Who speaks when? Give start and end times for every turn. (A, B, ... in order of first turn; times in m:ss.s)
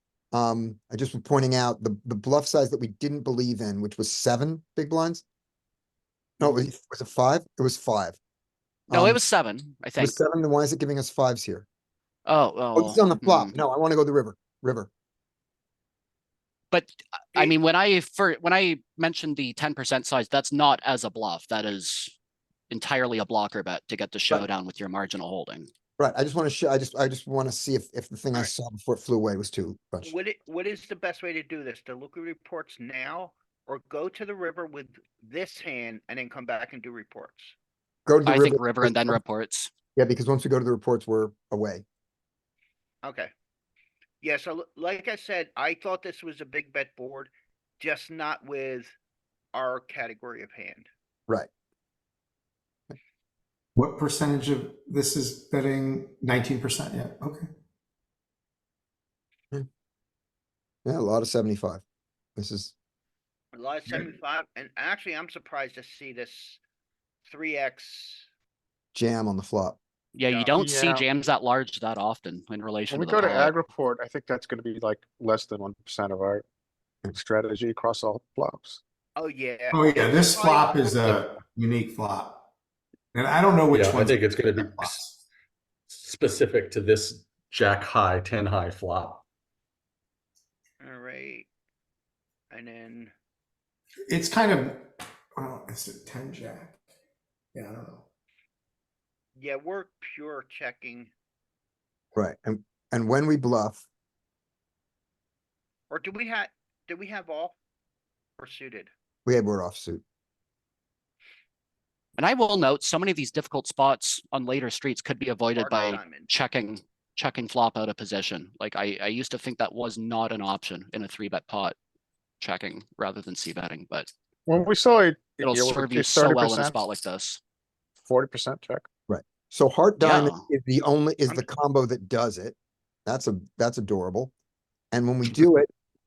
0:00.3-0:05.2 A
0:06.4-0:08.2 A
0:08.9-0:09.2 A
0:08.9-0:10.2 B
0:10.0-0:11.6 A
0:12.2-0:13.6 B
0:12.8-0:14.9 A
0:16.7-0:22.1 B
0:22.7-0:25.7 B
0:26.0-0:30.1 A
0:30.0-0:37.6 C
0:38.0-0:39.2 A
0:38.2-0:39.7 B
0:40.0-0:41.8 A
0:43.0-0:43.3 C
0:44.2-0:48.9 C
0:49.5-0:50.9 C
0:53.7-0:57.5 D
1:00.8-1:01.8 A
1:02.4-1:02.7 A
1:03.5-1:06.6 C
1:07.2-1:08.3 C
1:08.9-1:09.8 A
1:10.1-1:13.5 B
1:10.3-1:11.0 E
1:12.9-1:16.4 E
1:17.1-1:18.8 E
1:19.2-1:21.2 C
1:19.7-1:22.4 D
1:23.1-1:25.1 D
1:23.7-1:25.0 F
1:25.9-1:29.2 F
1:30.8-1:31.5 C
1:32.5-1:33.1 C
1:34.1-1:34.8 D
1:35.4-1:36.8 D
1:37.5-1:38.0 D
1:39.4-1:41.1 C
1:42.1-1:43.8 A
1:45.9-1:47.6 C
1:48.4-1:48.9 C
1:49.2-1:50.0 A
1:52.2-2:01.7 B
1:55.5-1:56.3 C
2:02.4-2:04.1 B
2:04.5-2:06.8 E
2:05.4-2:07.4 B
2:08.0-2:08.9 E
2:09.1-2:14.3 A
2:10.0-2:10.4 B
2:14.9-2:15.7 A